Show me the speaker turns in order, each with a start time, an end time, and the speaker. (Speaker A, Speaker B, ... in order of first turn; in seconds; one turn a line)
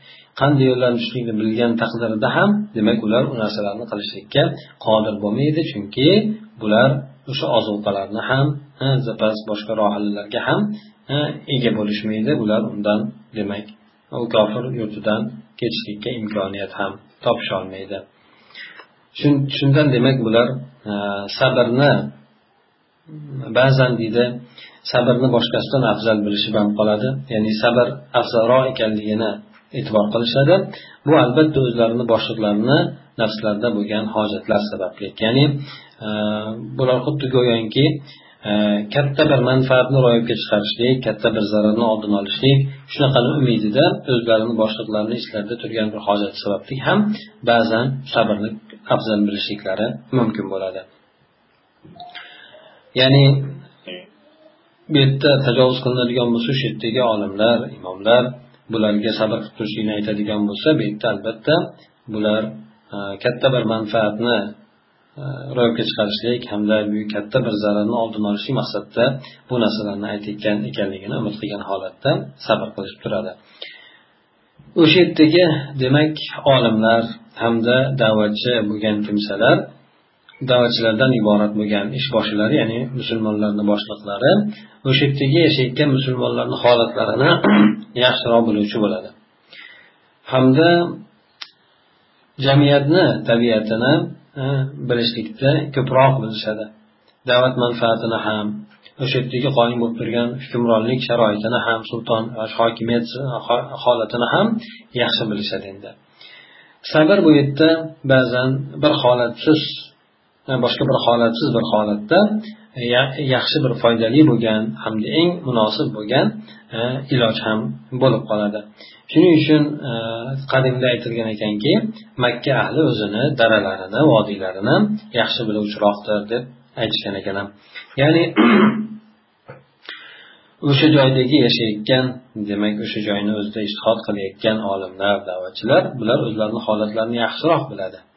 Speaker A: 0.4-18.0
Speaker A: 19.1-22.1
Speaker A: 23.5-50.8
Speaker A: 53.0-53.6
Speaker A: 54.9-64.5
Speaker A: 65.2-73.3
Speaker A: 74.8-79.7
Speaker A: 80.4-89.1
Speaker A: 90.2-91.0
Speaker A: 92.4-96.7
Speaker A: 97.3-105.9
Speaker A: 106.9-109.9
Speaker A: 110.5-129.0
Speaker A: 130.6-138.0